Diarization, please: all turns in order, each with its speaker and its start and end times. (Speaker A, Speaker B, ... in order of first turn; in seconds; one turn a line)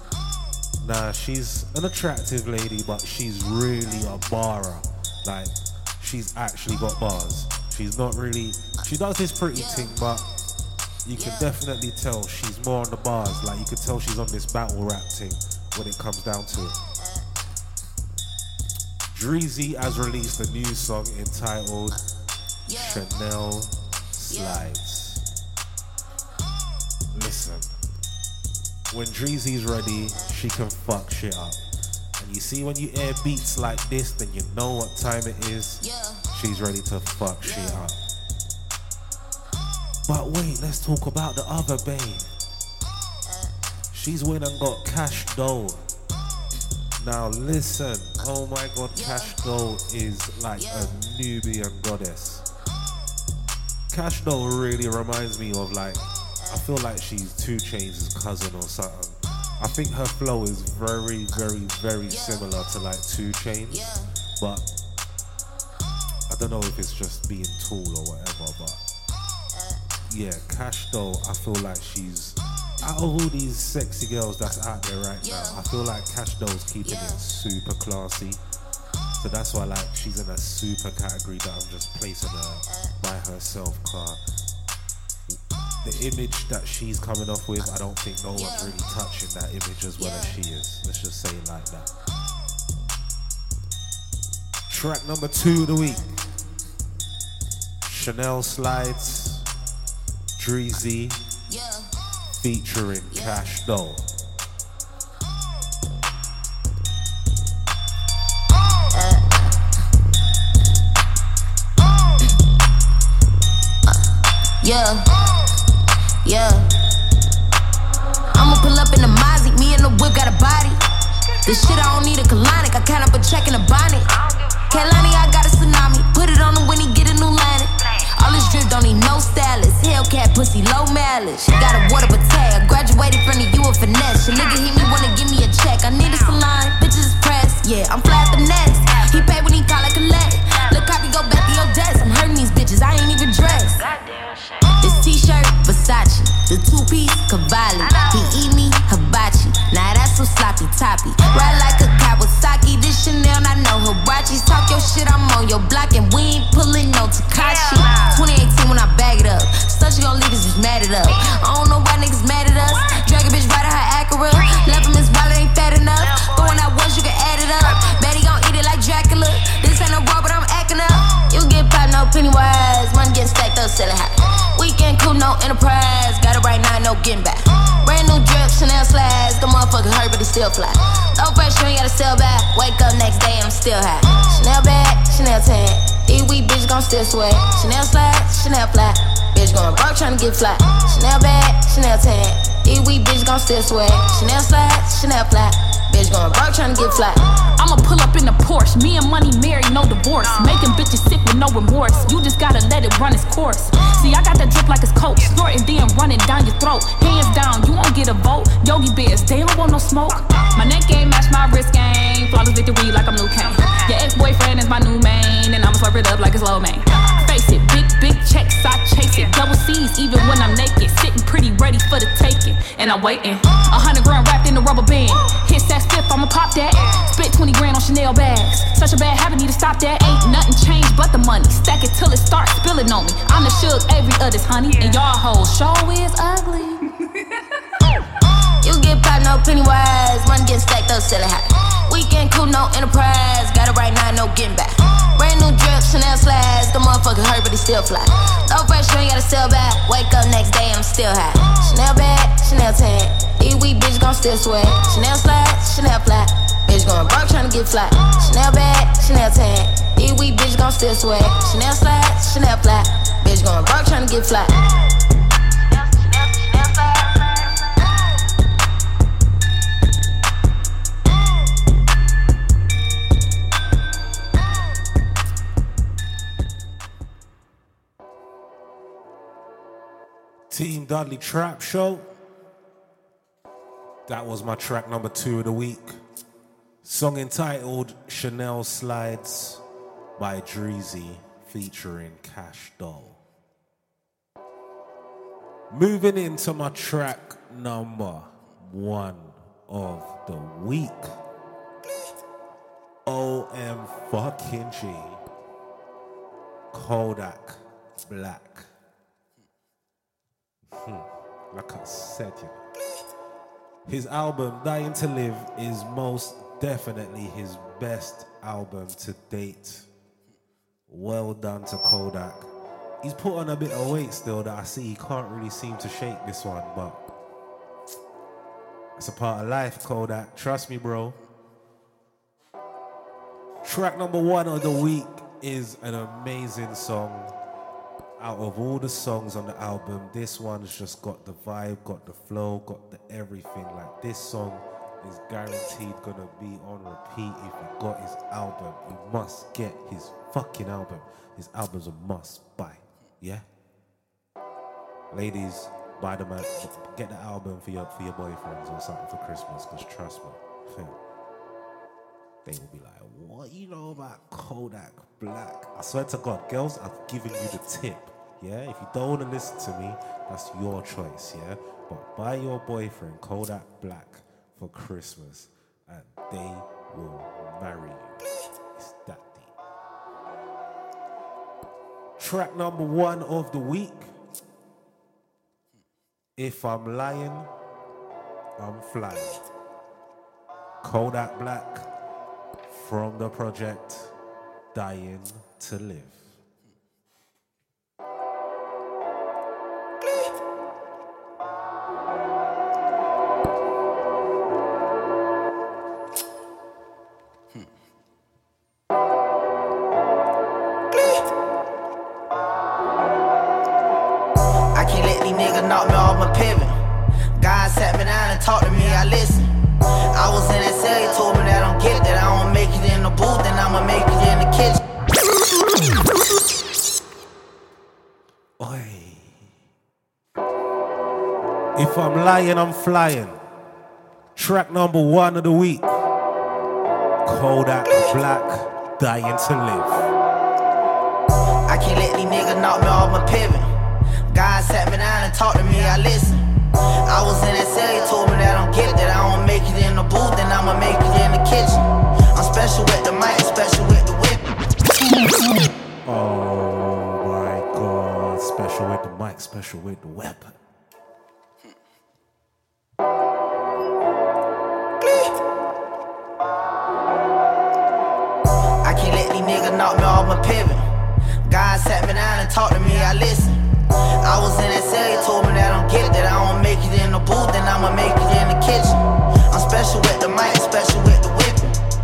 Speaker A: 0.8-10.3
Speaker B: 9.5-10.0
Speaker A: 11.1-16.8
Speaker B: 11.2-11.5
Speaker A: 19.1-22.0
Speaker B: 22.7-23.0
Speaker A: 22.7-25.2
Speaker B: 24.3-24.7
Speaker A: 27.1-27.7
Speaker A: 28.9-31.6
Speaker A: 32.2-38.0
Speaker B: 35.8-36.2
Speaker B: 37.5-37.8
Speaker A: 40.1-42.3
Speaker A: 43.9-45.8
Speaker A: 47.0-52.4
Speaker B: 49.0-49.3
Speaker B: 50.6-50.9
Speaker A: 53.9-64.7
Speaker B: 62.1-62.4
Speaker B: 63.7-64.0
Speaker A: 66.3-68.8
Speaker B: 69.5-69.8
Speaker A: 70.1-78.4
Speaker B: 75.2-75.6
Speaker B: 76.8-77.2
Speaker A: 79.2-84.2
Speaker A: 85.3-91.9
Speaker B: 88.3-88.8
Speaker B: 90.0-90.4
Speaker A: 94.7-96.1
Speaker A: 97.8-99.5
Speaker A: 100.4-101.2
Speaker B: 101.5-101.9
Speaker A: 102.4-104.1
Speaker B: 103.1-103.4
Speaker B: 108.9-109.5
Speaker B: 114.6-115.1
Speaker B: 116.2-116.7
Speaker B: 118.3-120.8
Speaker B: 121.4-124.1
Speaker B: 124.7-143.8
Speaker B: 144.8-197.2
Speaker C: 197.6-236.8
Speaker B: 238.6-264.6
Speaker B: 265.7-267.4
Speaker A: 280.5-282.1
Speaker A: 284.1-286.0
Speaker A: 286.8-289.6
Speaker A: 290.2-293.2
Speaker A: 295.7-301.1
Speaker A: 303.1-305.2
Speaker A: 306.7-308.7
Speaker A: 310.7-312.6
Speaker A: 313.9-319.9
Speaker A: 320.9-322.5
Speaker A: 323.0-327.0
Speaker A: 329.0-331.2
Speaker A: 333.6-337.3
Speaker A: 338.2-353.4
Speaker A: 355.1-361.0
Speaker A: 362.4-378.2
Speaker A: 378.8-379.5
Speaker A: 382.2-384.1
Speaker A: 386.4-387.5
Speaker A: 388.6-389.4
Speaker A: 390.8-391.9
Speaker A: 392.7-394.1
Speaker A: 394.7-396.3
Speaker D: 414.8-416.8
Speaker D: 417.4-419.5
Speaker D: 420.1-424.8
Speaker A: 428.6-429.5
Speaker A: 431.8-433.4
Speaker A: 434.4-435.9
Speaker A: 437.2-440.1
Speaker D: 441.7-443.7
Speaker D: 444.3-446.4
Speaker D: 447.1-454.5
Speaker A: 456.1-460.6
Speaker D: 468.8-470.9
Speaker D: 471.4-473.6
Speaker D: 474.2-481.8